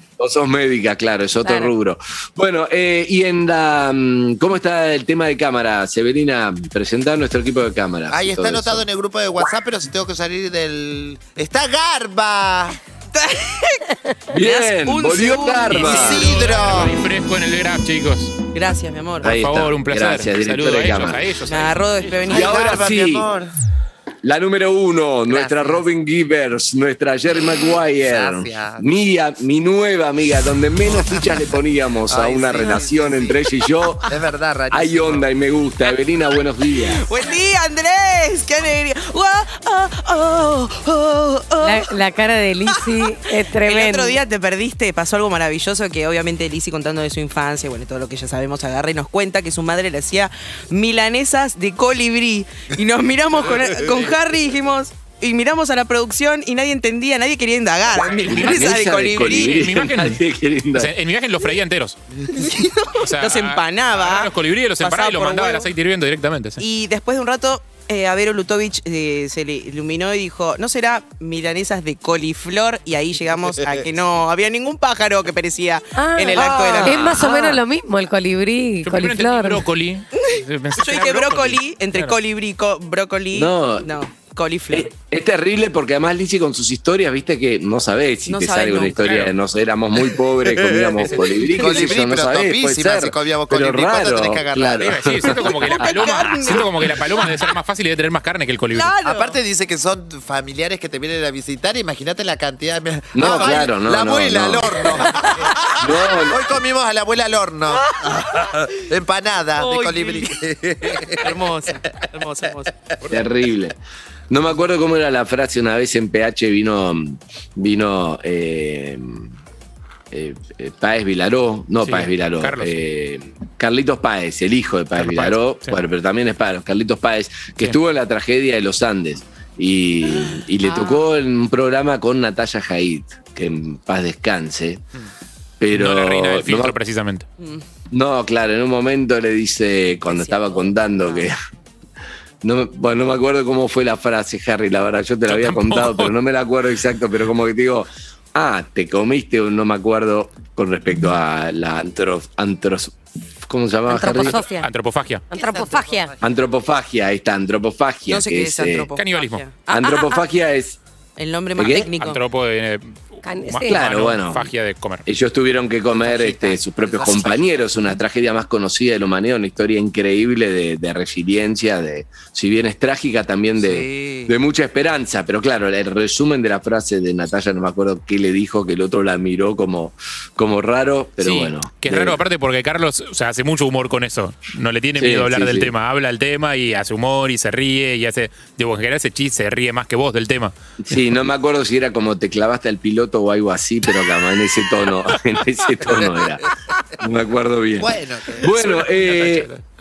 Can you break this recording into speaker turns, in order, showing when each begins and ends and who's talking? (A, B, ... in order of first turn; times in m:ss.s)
0:00.2-0:08.8 A
0:01.4-0:01.7 B
0:08.1-0:12.8 C
0:13.1-0:16.5 D
0:14.3-0:16.3 A
0:15.7-0:18.3 E
0:15.9-0:16.9 C
0:18.5-0:19.3 D
0:19.2-0:21.2 A
0:19.2-0:22.2 E
0:21.5-0:22.8 D
0:22.3-0:23.3 A
0:22.3-0:23.5 C
0:24.2-0:34.1 A
0:25.3-0:25.8 C
0:28.0-0:28.8 C
0:30.9-0:31.4 C
0:32.1-0:33.4 C
0:34.0-0:35.2 C
0:34.7-0:37.0 A
0:36.9-0:41.9 D
0:41.6-0:44.2 B
0:43.6-0:59.7 D
0:57.9-1:00.9 A
0:59.2-1:02.0 E
1:02.3-1:05.7 D
1:02.4-1:02.6 C
1:03.0-1:06.6 E
1:06.6-1:17.6 D
1:16.0-1:19.6 B
1:16.5-1:17.2 A
1:18.8-1:22.1 E
1:20.2-1:24.9 D
1:23.3-1:23.9 A
1:24.7-1:36.1 A
1:28.3-1:29.1 D
1:29.0-1:29.3 E
1:30.6-1:35.1 C
1:31.4-1:31.8 D
1:34.8-1:38.9 E
1:35.3-1:37.2 D
1:38.7-1:39.4 D
1:39.0-1:51.4 C
1:43.1-1:45.2 A
1:43.2-1:43.6 D
1:45.8-1:46.4 A
1:47.9-1:48.6 D
1:49.6-1:50.4 D
1:51.2-1:52.7 D
1:53.0-1:53.8 A
1:54.3-1:59.3 A
2:00.1-2:14.8 A
2:01.8-2:02.7 E
2:05.0-2:05.8 E
2:10.3-2:11.0 D
2:15.6-2:16.8 A
2:15.7-2:17.2 E
2:17.4-2:17.6 D
2:17.9-2:21.4 A
2:20.1-2:21.3 D
2:22.4-2:34.4 A
2:25.3-2:26.1 E
2:33.9-2:34.7 B
2:34.4-2:35.2 E
2:35.3-2:36.1 B
2:35.3-2:36.3 C
2:36.2-2:38.9 A
2:38.1-2:40.2 D
2:39.0-2:39.4 E
2:39.7-2:40.8 A
2:41.2-2:42.2 D
2:41.6-2:41.9 A
2:42.0-2:45.0 E
2:43.2-2:43.8 B
2:43.6-2:44.5 A
2:45.0-3:02.2 A
2:46.0-2:47.8 C
2:53.6-2:54.3 C
3:01.2-3:10.5 E
3:05.0-3:05.7 A
3:10.8-3:16.4 A
3:15.9-3:16.2 C
3:17.0-3:19.5 A
3:17.8-3:18.6 C
3:18.5-3:19.6 E